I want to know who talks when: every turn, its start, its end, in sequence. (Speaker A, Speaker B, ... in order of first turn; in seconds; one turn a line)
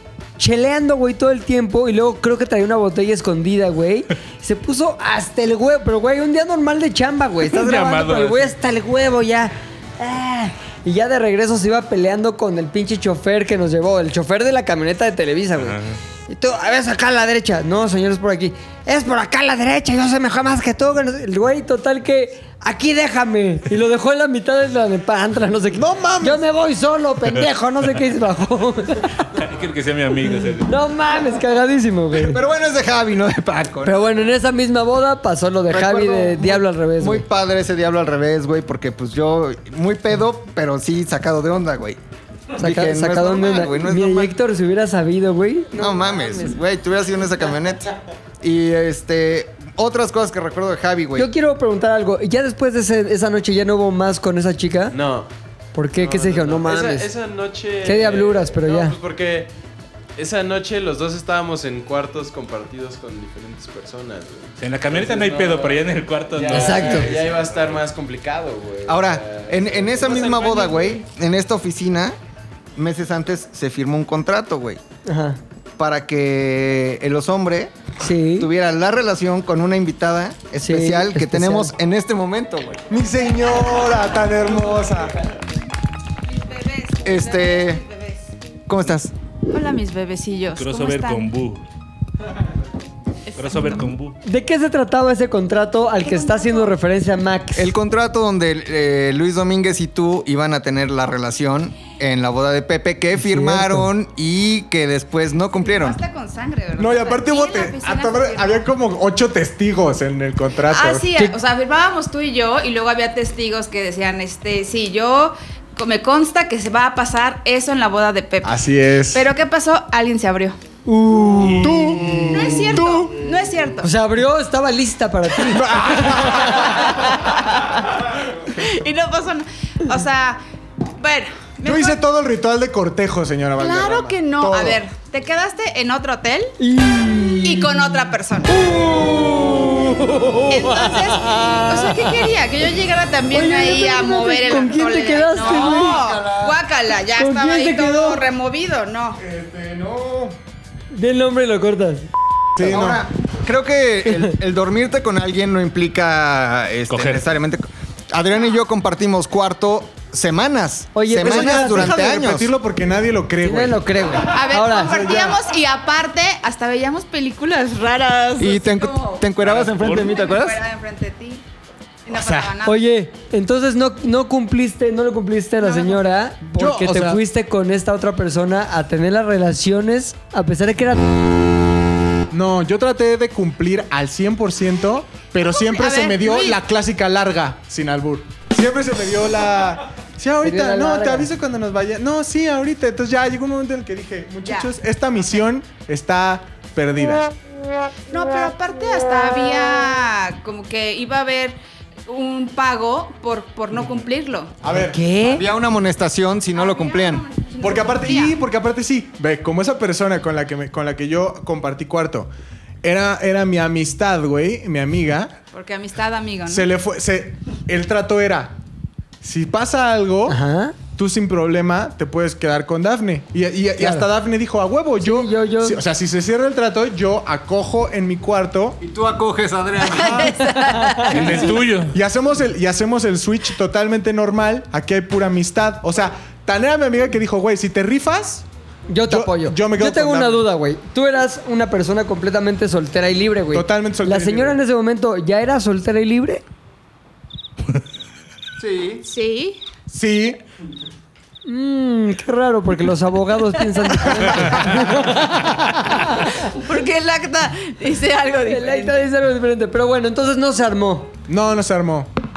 Speaker A: 0.4-29.2
Speaker B: 7.4-8.5
Speaker B: 15.6-16.0
Speaker C: 25.7-26.4
Speaker B: 29.3-30.7
Speaker A: 30.6-32.4
Speaker D: 32.1-34.0
Speaker A: 33.8-37.2
Speaker D: 35.7-42.0
Speaker D: 42.6-44.4
Speaker A: 42.6-46.6
Speaker D: 45.8-51.3
Speaker A: 51.1-54.9
Speaker E: 54.9-55.3
Speaker A: 55.7-57.1
Speaker E: 56.0-59.5
Speaker A: 57.8-59.0
Speaker E: 60.1-71.0
Speaker B: 64.6-67.3
Speaker A: 66.5-67.1
Speaker D: 68.8-72.2
Speaker D: 72.8-74.8
Speaker A: 75.0-75.4
Speaker D: 75.8-77.7
Speaker A: 78.0-78.5
Speaker D: 78.4-82.8
Speaker A: 80.6-81.7
Speaker C: 82.9-85.2
Speaker F: 86.2-88.3
Speaker D: 87.0-87.8
Speaker D: 88.7-89.1
Speaker F: 89.5-91.3
Speaker B: 90.5-91.6
Speaker F: 93.3-93.9
Speaker B: 93.3-94.2
Speaker A: 94.2-97.7
Speaker F: 96.0-96.8
Speaker D: 97.5-106.0
Speaker A: 103.2-103.9
Speaker F: 105.5-108.6
Speaker C: 106.8-111.1
Speaker F: 110.6-120.6
Speaker C: 118.4-119.3
Speaker A: 120.8-122.0
Speaker C: 121.5-123.4
Speaker F: 122.3-123.9
Speaker A: 123.8-126.8
Speaker C: 125.5-127.0
Speaker F: 126.4-130.4
Speaker F: 131.0-132.0
Speaker C: 131.6-134.8
Speaker F: 133.6-136.5
Speaker A: 136.6-137.7
Speaker F: 137.4-138.6
Speaker A: 138.5-142.2
Speaker F: 140.5-149.2
Speaker A: 143.3-146.0
Speaker D: 145.5-146.5
Speaker C: 146.1-146.5
Speaker A: 147.1-148.2
Speaker C: 149.2-150.3
Speaker A: 150.9-152.1
Speaker C: 152.6-153.0
Speaker D: 152.6-162.5
Speaker B: 156.9-157.3
Speaker A: 160.9-162.0
Speaker C: 161.2-165.4
Speaker A: 163.4-165.0
Speaker F: 164.3-171.4
Speaker D: 168.4-170.6
Speaker C: 169.5-169.9
Speaker F: 172.1-172.8
Speaker C: 172.1-172.5
Speaker A: 172.6-181.1
Speaker F: 175.6-176.0
Speaker C: 176.5-177.2
Speaker C: 182.3-197.3
Speaker F: 185.4-186.6
Speaker A: 190.4-191.3
Speaker F: 194.4-194.7
Speaker F: 198.1-204.6
Speaker C: 204.6-205.0
Speaker A: 204.7-205.4
Speaker D: 205.2-207.2
Speaker F: 206.5-208.4
Speaker C: 207.6-212.3
Speaker C: 212.8-215.4
Speaker F: 215.5-216.7
Speaker C: 216.4-218.6
Speaker C: 219.2-220.4
Speaker A: 220.3-220.8
Speaker C: 220.9-228.8
Speaker A: 223.8-224.1
Speaker A: 225.0-225.8
Speaker D: 228.8-230.4
Speaker F: 229.8-231.5
Speaker A: 230.2-231.4
Speaker B: 231.0-231.9
Speaker C: 231.9-238.4
Speaker A: 238.9-246.4
Speaker C: 239.1-240.5
Speaker C: 243.5-244.6
Speaker D: 248.6-249.0
Speaker F: 249.0-249.6
Speaker C: 249.9-250.4
Speaker A: 251.4-256.5
Speaker F: 253.8-254.2
Speaker F: 255.9-259.0
Speaker A: 258.4-261.1
Speaker C: 261.3-262.1